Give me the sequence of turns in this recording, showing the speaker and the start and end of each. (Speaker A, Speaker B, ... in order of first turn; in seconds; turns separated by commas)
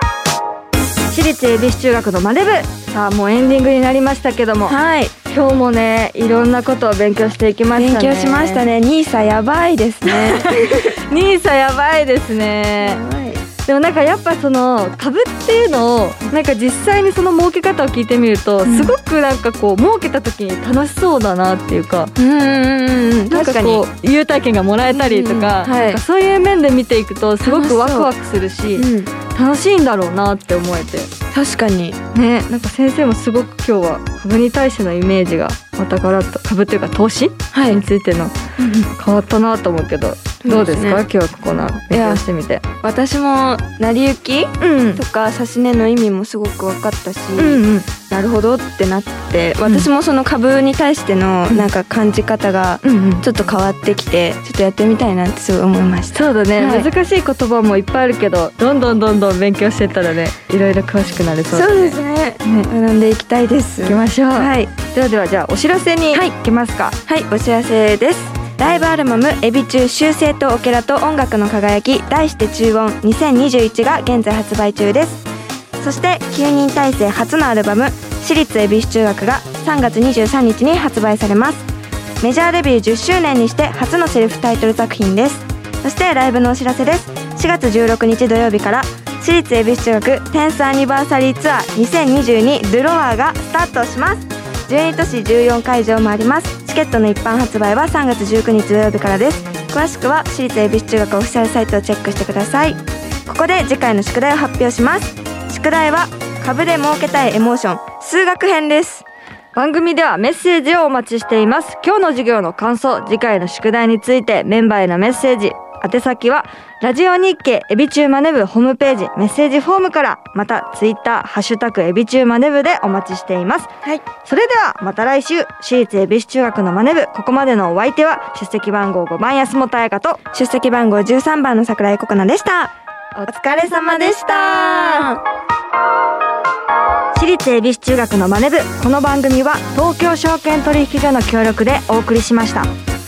Speaker A: 1.1-8.7, Speaker B: 4.7-5.1, Speaker B: 7.8-10.9, Speaker A: 10.1-13.0, Speaker B: 12.8-13.4, Speaker A: 13.7-22.1, Speaker B: 18.7-18.9, Speaker B: 22.2-23.8, Speaker A: 23.3-31.1, Speaker B: 24.9-26.0, Speaker B: 27.4-28.1, Speaker B: 28.8-29.1, Speaker B: 31.3-32.0, Speaker A: 32.1-42.6, Speaker B: 37.5-37.8, Speaker B: 40.4-41.0, Speaker B: 41.9-42.2, Speaker B: 42.8-56.9, Speaker A: 44.6-45.0, Speaker A: 47.4-47.9, Speaker A: 52.8-53.2, Speaker A: 56.1-62.7, Speaker B: 61.5-64.7, Speaker A: 63.8-67.0, Speaker B: 67.1-75.3, Speaker B: 75.8-81.7, Speaker B: 82.2-109.0, Speaker A: 109.5-123.7, Speaker A: 124.2-130.2, Speaker B: 130.3-132.7, Speaker A: 133.2-135.1, Speaker B: 133.3-135.2, Speaker A: 137.1-142.7